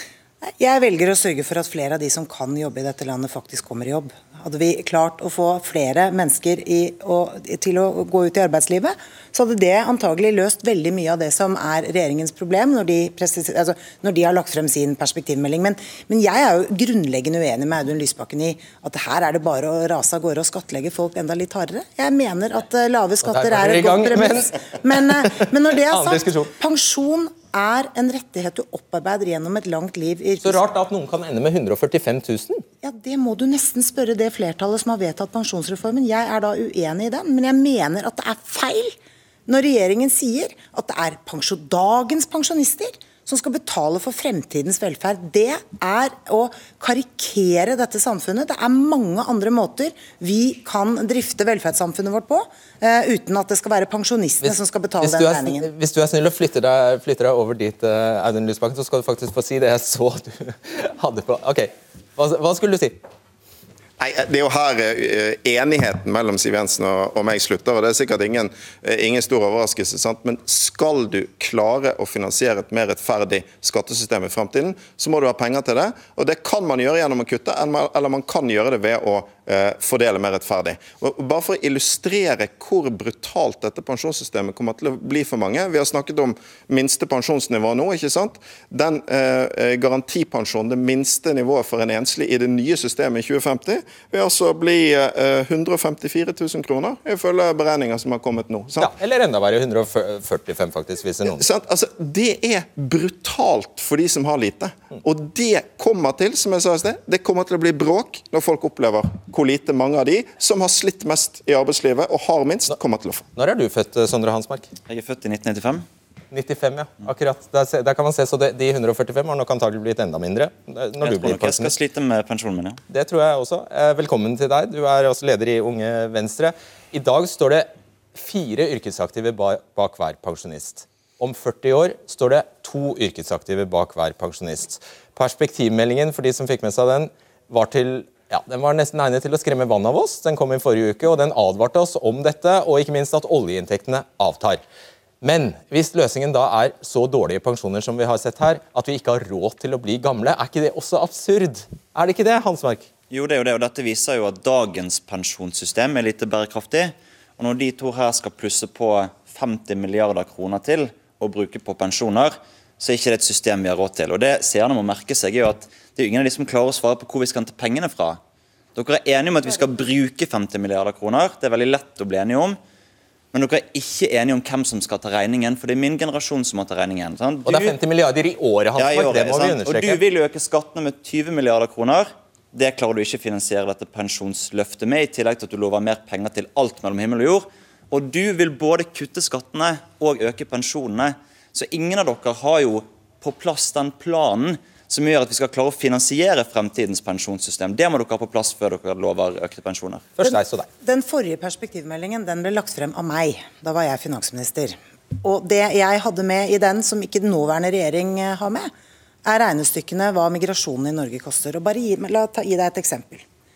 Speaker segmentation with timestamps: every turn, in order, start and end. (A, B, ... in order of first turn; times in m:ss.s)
0:00.4-0:30.6 A
0:23.2-0:26.5 B
0:30.4-0:32.6 B
0:32.8-0:39.0 A
0:39.5-0:55.7 A
0:54.4-1:03.0 B
1:04.0-1:38.9 C
1:38.8-1:41.5 B
1:41.3-1:53.2 C
1:53.3-1:54.7 B
1:54.9-1:55.8 D
1:56.3-2:01.7 B
2:01.0-2:02.8 D
2:02.9-2:24.6 B
2:25.2-2:32.9 B
2:33.1-2:48.2 D
2:48.7-2:52.6 D
2:53.3-2:57.8 D
2:57.4-3:00.0 B
2:58.8-3:20.1 D
3:20.2-3:20.7 B
3:20.2-3:28.7 A
3:29.2-3:33.2 A